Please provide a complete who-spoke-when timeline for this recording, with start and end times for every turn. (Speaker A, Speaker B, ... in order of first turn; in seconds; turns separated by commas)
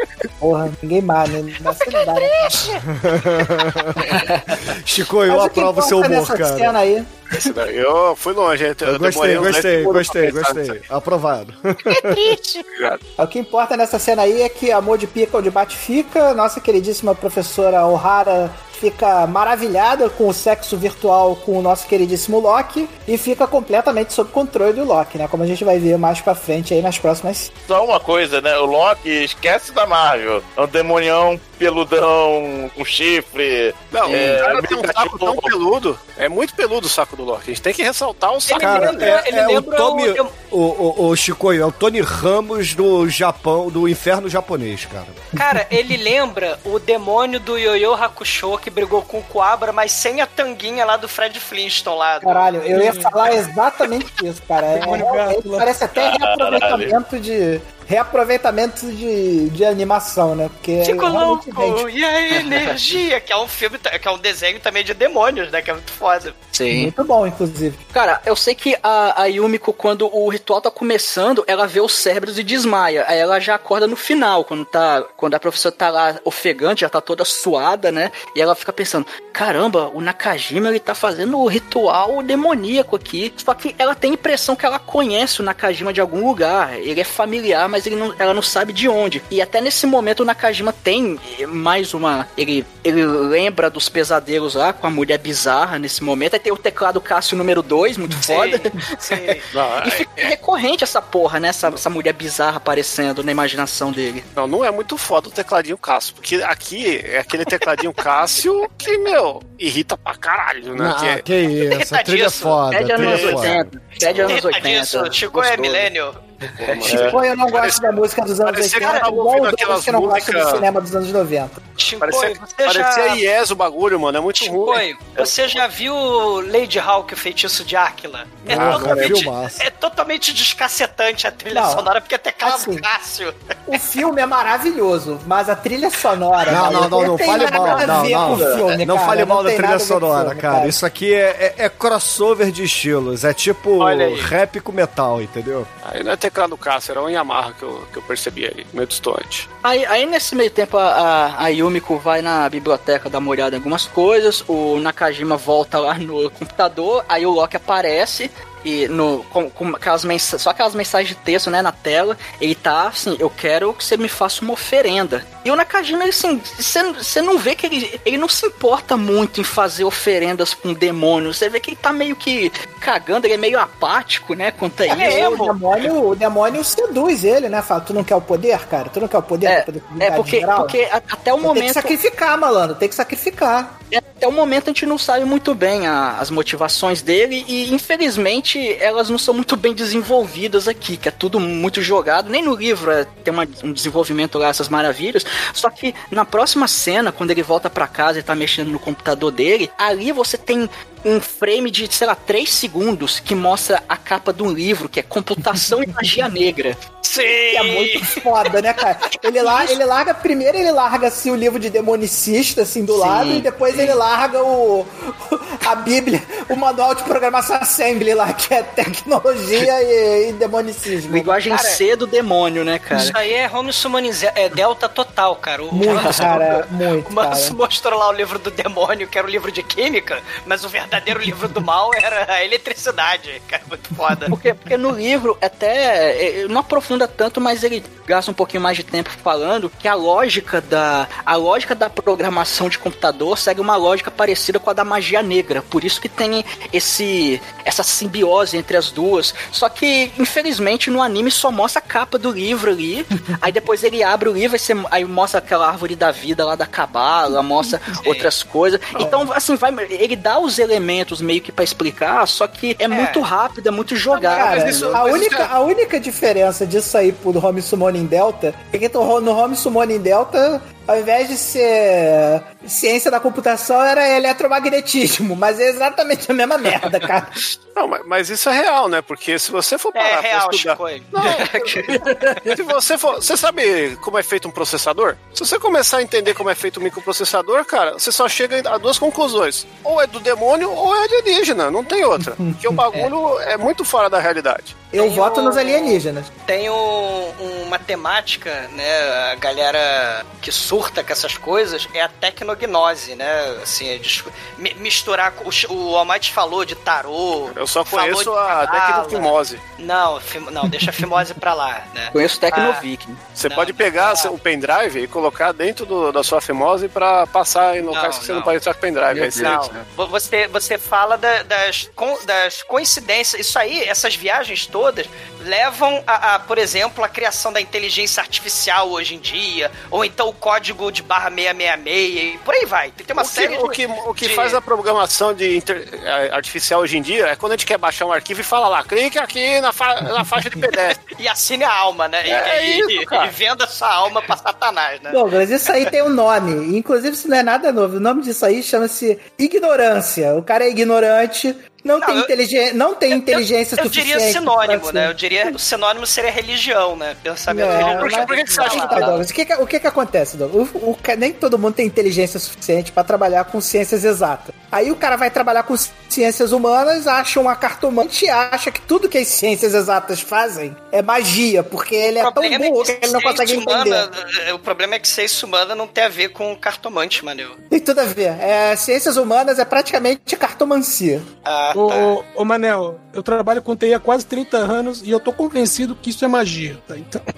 Speaker A: 0.4-2.7, Speaker B: 1.9-2.8, Speaker C: 3.0-4.0, Speaker D: 4.0-4.5, Speaker C: 4.7-6.8, Speaker A: 5.3-7.5, Speaker E: 7.3-10.8, Speaker C: 8.8-12.3, Speaker B: 11.9-12.6, Speaker E: 12.7-13.0, Speaker A: 13.2-27.5, Speaker F: 27.7-35.5, Speaker E: 33.9-39.1, Speaker D: 38.5-39.1, Speaker B: 38.5-40.3, Speaker C: 38.6-45.2, Speaker B: 45.3-52.5, Speaker A: 52.2-61.8, Speaker G: 52.7-53.2, Speaker G: 54.7-55.7, Speaker F: 56.0-57.0, Speaker B: 60.8-66.3, Speaker D: 62.3-62.7, Speaker D: 66.5-66.9, Speaker A: 66.7-67.8, Speaker D: 67.9-104.2, Speaker B: 98.2-99.4, Speaker E: 99.5-100.3, Speaker E: 104.3-111.2, Speaker C: 110.7-113.7, Speaker B: 111.6-112.6, Speaker D: 112.7-115.8, Speaker F: 113.0-113.5, Speaker B: 114.2-116.2, Speaker E: 116.6-120.7, Speaker F: 116.8-117.2, Speaker A: 116.9-121.6, Speaker B: 118.8-119.1, Speaker B: 121.8-123.2, Speaker E: 122.0-124.8, Speaker B: 124.3-133.8, Speaker F: 125.2-125.5, Speaker E: 128.4-129.2, Speaker C: 128.5-129.6, Speaker A: 131.5-131.9, Speaker A: 132.4-132.8, Speaker A: 133.7-140.8, Speaker C: 136.5-145.7, Speaker F: 137.7-138.6, Speaker F: 143.8-144.3, Speaker E: 145.8-149.5, Speaker D: 149.6-175.3, Speaker A: 174.9-180.8, Speaker B: 174.9-175.6, Speaker D: 179.4-181.9, Speaker A: 181.4-183.8, Speaker D: 183.9-206.8, Speaker B: 207.0-208.2, Speaker A: 207.5-221.3, Speaker B: 209.4-209.7, Speaker D: 212.9-214.0, Speaker D: 221.1-223.2, Speaker B: 221.5-221.8, Speaker B: 222.9-234.3, Speaker A: 225.7-227.6, Speaker D: 225.9-226.4, Speaker D: 234.3-265.0, Speaker B: 258.0-258.3, Speaker A: 259.0-259.3, Speaker B: 262.9-263.2, Speaker E: 264.1-265.5, Speaker A: 264.3-277.4, Speaker E: 277.8-294.9, Speaker B: 279.9-281.4, Speaker D: 281.3-281.9, Speaker A: 292.4-292.8, Speaker A: 294.9-296.3, Speaker B: 294.9-312.8, Speaker E: 307.5-309.6, Speaker A: 310.7-311.2, Speaker D: 312.1-313.2, Speaker E: 313.3-319.8, Speaker B: 313.5-314.3, Speaker B: 317.9-318.5, Speaker D: 319.1-319.6, Speaker B: 319.4-334.6, Speaker E: 333.2-341.0, Speaker B: 341.1-345.2, Speaker E: 342.3-343.3, Speaker A: 345.1-355.5, Speaker B: 352.0-352.3, Speaker B: 353.1-359.1, Speaker A: 357.5-374.1, Speaker E: 357.7-359.1, Speaker D: 358.9-359.2, Speaker B: 372.2-377.6, Speaker A: 377.7-381.3, Speaker B: 381.4-382.2, Speaker G: 381.7-387.2